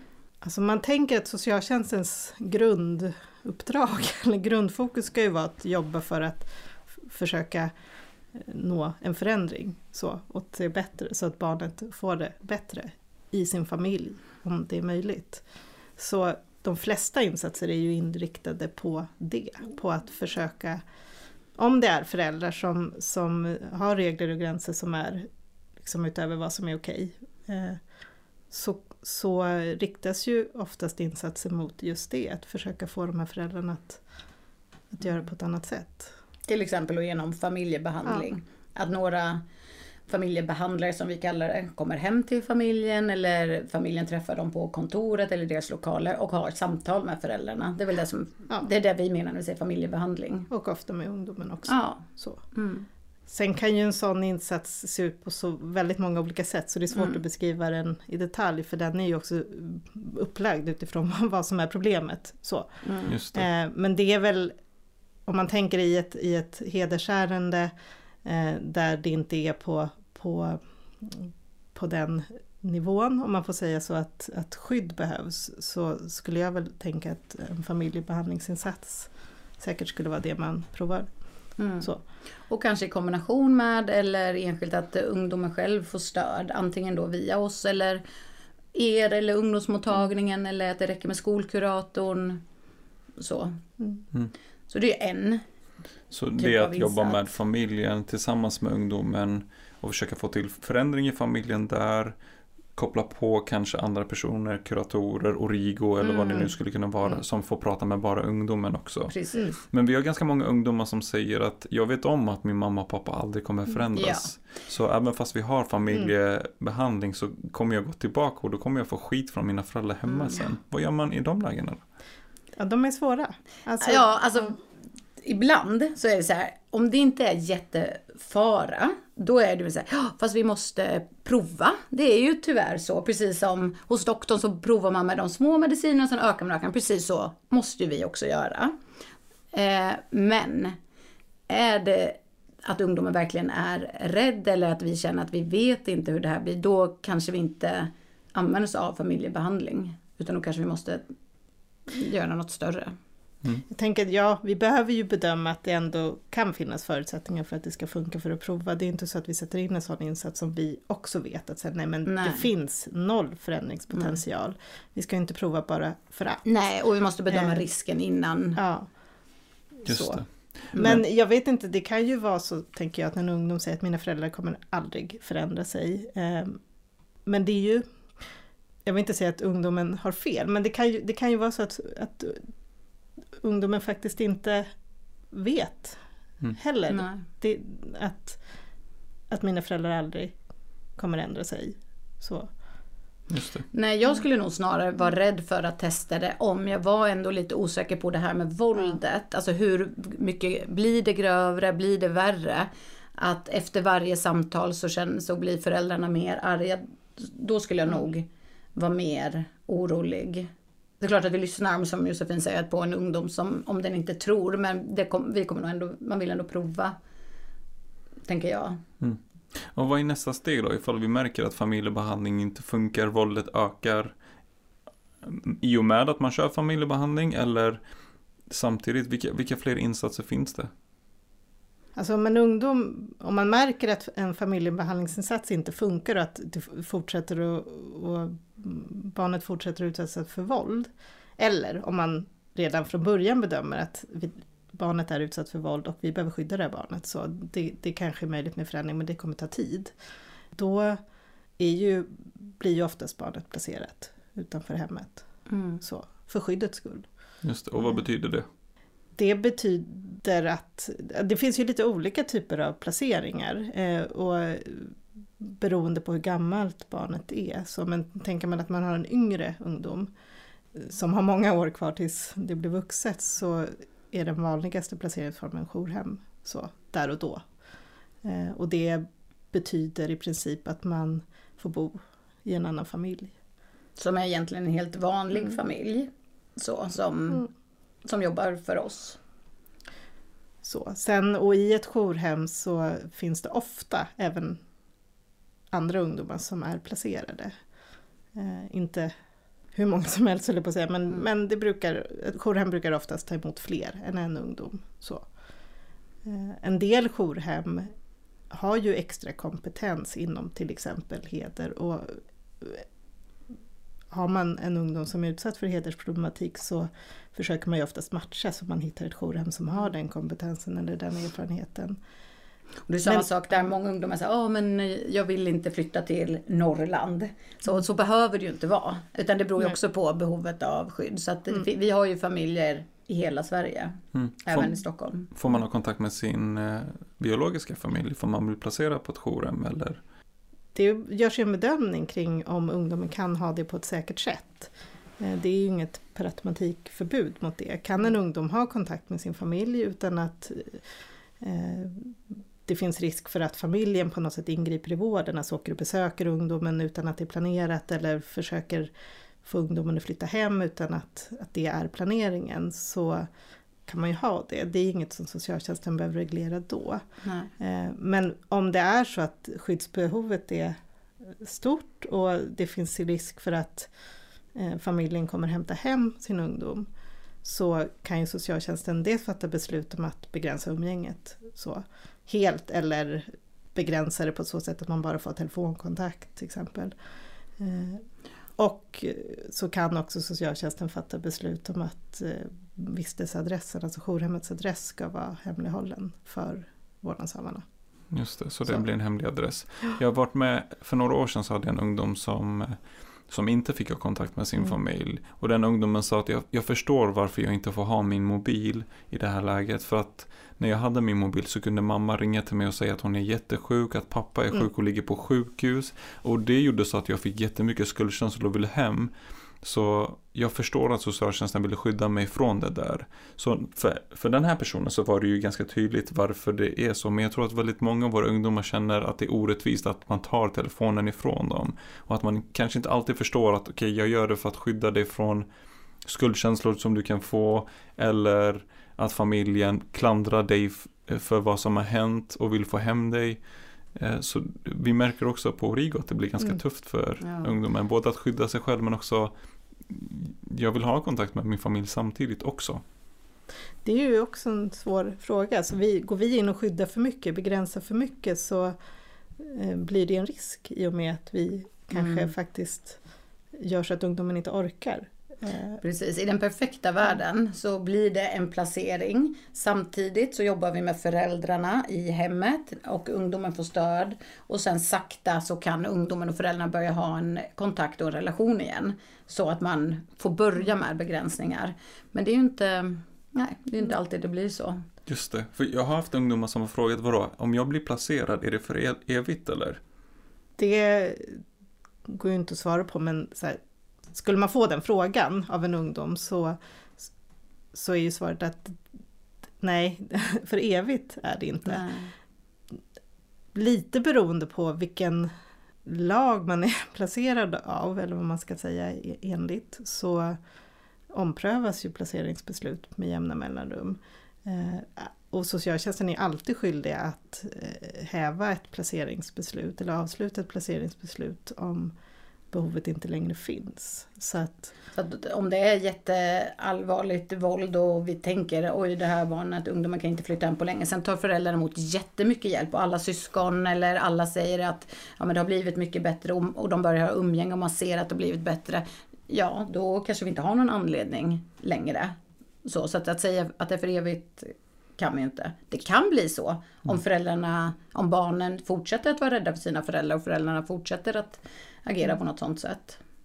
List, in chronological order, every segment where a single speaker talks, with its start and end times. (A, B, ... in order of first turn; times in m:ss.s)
0:00.4-0:07.7 A
0:08.3-0:15.4 A
0:16.0-0:20.8 A
0:21.6-0:25.3 A
0:25.8-0:27.8 A
0:28.5-0:34.0 A
0:34.9-0:36.1 A
0:36.5-0:39.4 B
0:40.1-0:50.5 B
0:50.5-0:52.4 A
0:51.7-0:52.9 B
0:53.3-1:02.8 A
0:56.9-0:57.2 B
1:02.8-1:03.1 B
1:03.1-1:03.4 C
1:03.3-1:04.5 A
1:05.3-1:07.7 A
1:08.2-1:21.1 A
1:21.6-1:21.9 B
1:22.5-1:28.0 B
1:28.7-1:32.4 B
1:33.2-1:33.6 B
1:34.7-1:35.4 B
1:36.1-1:42.1 C
1:36.4-1:37.4 B
1:42.8-1:49.1 C
1:46.0-1:46.5 B
1:49.1-1:49.5 B
1:49.6-2:01.8 C
1:53.9-1:54.3 B
2:02.6-2:04.5 A
2:03.8-2:04.6 B
2:05.2-2:18.7 B
2:19.5-2:20.8 B
2:21.5-2:31.1 B
2:31.9-2:33.0 B
2:33.7-2:46.4 A
2:42.0-2:42.5 B
2:46.4-2:48.6 B
2:47.3-2:47.6 A
2:48.6-2:48.9 A
2:49.8-2:50.2 A
2:49.9-2:51.0 C
2:50.7-2:51.0 B
2:50.8-2:56.6 A
2:57.2-2:57.8 A
2:58.8-3:02.5 A
3:03.4-3:04.7 A
3:05.3-3:06.0 A
3:06.5-3:08.4 A
3:06.9-3:07.2 B
3:09.3-3:10.4 A
3:11.0-3:12.5 A
3:13.3-3:13.6 C
3:13.7-3:37.0 B
3:38.3-3:38.8 B
3:39.0-3:44.1 C
3:45.2-3:47.8 C
3:48.5-3:50.7 C
3:52.0-4:09.9 A
4:10.5-4:11.0 A
4:11.6-4:15.2 A
4:15.5-4:15.8 B
4:15.8-4:17.1 A
4:17.4-4:18.4 C
4:19.2-4:30.1 A
4:30.7-4:37.4 A
4:38.2-4:43.3 A
4:44.0-4:47.5 B
4:48.0-4:49.2 B
4:50.6-4:54.6 A
4:55.7-4:57.5 A
4:58.3-4:59.1 A
4:59.7-5:05.3 A
5:06.2-5:07.9 A
5:08.5-5:12.8 A
5:14.1-5:22.0 A
5:22.9-5:35.3 B
5:34.1-5:34.7 C
5:35.3-5:40.0 C
5:40.7-5:50.8 A
5:51.4-5:58.9 A
5:59.4-6:03.3 A
6:03.8-6:07.0 A
6:07.2-6:07.5 B
6:07.6-6:13.9 A
6:14.5-6:16.9 A
6:17.4-6:26.9 A
6:27.6-6:28.0 A
6:28.6-6:37.6 A
6:38.1-6:42.8 C
6:43.3-7:15.4 C
7:16.0-7:23.4 C
7:24.0-7:29.3 C
7:27.2-7:27.5 B
7:29.9-7:32.8 C
7:33.8-7:38.8 A
7:39.4-7:43.0 A
7:41.9-7:42.3 B
7:43.6-7:45.8 A
7:45.8-8:04.8 B
8:05.0-8:09.8 C
8:10.6-8:11.4 A
8:12.1-8:13.6 A
8:14.1-8:17.1 A
8:17.7-8:18.8 A
8:19.6-8:21.9 A
8:21.7-8:22.1 B
8:23.5-8:25.3 A
8:25.8-8:30.4 A
8:31.1-8:41.9 A
8:42.5-8:44.7 A
8:44.9-9:13.0 B